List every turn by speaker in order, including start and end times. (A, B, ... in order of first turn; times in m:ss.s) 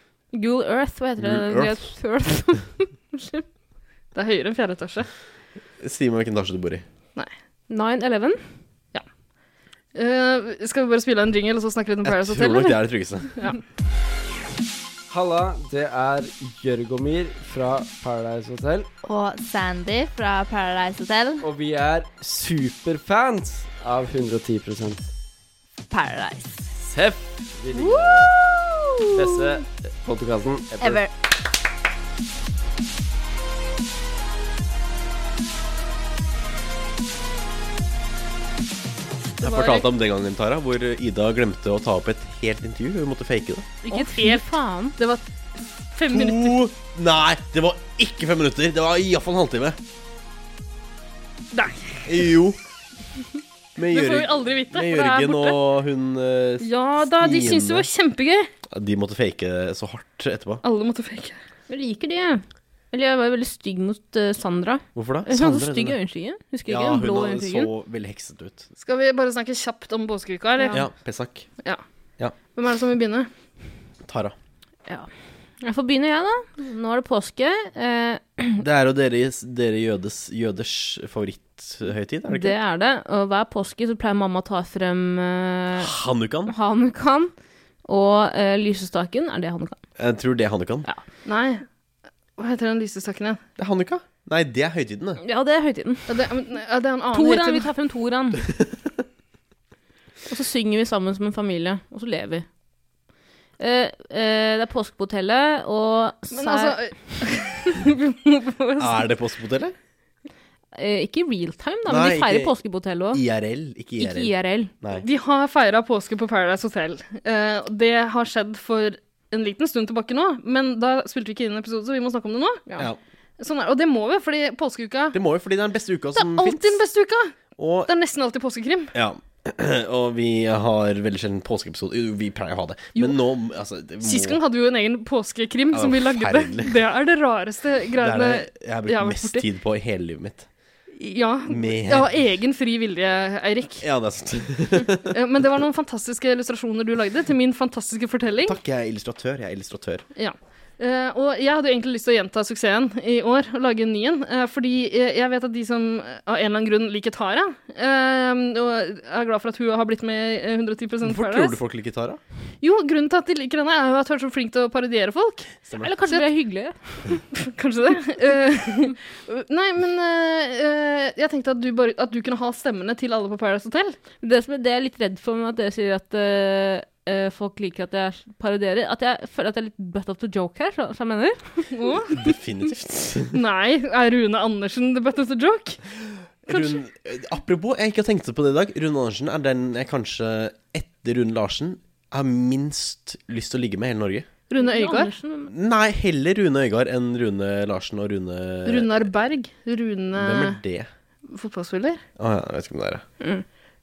0:00.3-0:03.4 A
0:01.2-0:01.8 B
0:04.1-0:05.1 C
0:05.8-0:06.8 B
0:07.7-0:08.4 A
0:09.9-0:12.8 C
0:12.0-0:13.4 B
0:15.1-0:18.9 D
0:19.0-0:21.4 E
0:21.4-0:25.1 D
0:25.9-0:26.8 E
0:26.9-0:28.4 D
0:27.7-0:29.4 E
0:29.1-0:31.0 D
0:30.8-0:31.1 E
0:39.4-0:43.7 B
0:39.4-0:39.9 C
0:43.8-0:44.4 C
0:43.9-0:45.0 A
0:45.0-0:45.2 C
0:45.9-0:46.6 C
0:46.1-0:49.8 B
0:51.5-0:52.0 C
0:52.0-0:52.6 B
0:53.8-0:57.9 B
0:53.9-0:55.6 C
0:56.6-0:58.5 C
0:58.7-1:00.6 B
1:00.6-1:01.4 C
1:01.7-1:07.7 A
1:04.9-1:06.0 B
1:06.7-1:08.6 B
1:08.8-1:10.9 C
1:10.7-1:11.5 B
1:12.4-1:13.3 C
1:14.1-1:14.4 B
1:15.6-1:18.6 A
1:18.6-1:22.6 B
1:22.3-1:25.9 A
1:25.8-1:26.5 B
1:26.5-1:27.3 A
1:27.8-1:29.8 A
1:30.0-1:30.9 B
1:31.2-1:31.6 C
1:32.4-1:33.4 C
1:33.6-1:35.2 B
1:35.2-1:36.2 A
1:36.1-1:37.7 C
1:37.1-1:38.5 A
1:40.3-1:42.4 A
1:43.6-1:46.8 A
1:46.3-1:49.0 C
1:48.8-1:49.7 B
1:50.7-1:53.2 A
1:51.9-1:52.5 B
1:53.1-1:55.0 B
1:54.0-1:54.7 A
1:55.0-2:02.7 C
2:03.4-2:05.2 C
2:05.1-2:06.8 B
2:06.1-2:07.4 C
2:07.6-2:07.9 B
2:07.9-2:08.9 C
2:08.9-2:14.4 B
2:14.0-2:19.4 C
2:15.7-2:16.7 B
2:18.0-2:20.5 B
2:21.0-2:23.8 C
2:21.5-2:22.1 B
2:23.8-2:25.1 B
2:25.1-2:28.6 C
2:28.5-2:30.0 B
2:30.2-2:41.6 C
2:41.0-2:42.2 B
2:42.6-2:46.3 C
2:45.7-2:45.9 B
2:45.8-2:47.2 A
2:47.3-2:54.0 C
2:54.2-3:01.7 A
3:01.7-3:02.2 C
3:02.1-3:03.4 B
3:03.3-3:05.8 C
3:06.5-3:14.3 B
3:06.5-3:06.8 C
3:14.5-3:15.1 C
3:14.6-3:15.5 A
3:15.5-3:19.1 B
3:18.6-3:20.6 C
3:20.2-3:20.9 B
3:21.3-3:22.0 C
3:22.2-3:23.0 B
3:23.2-3:23.4 A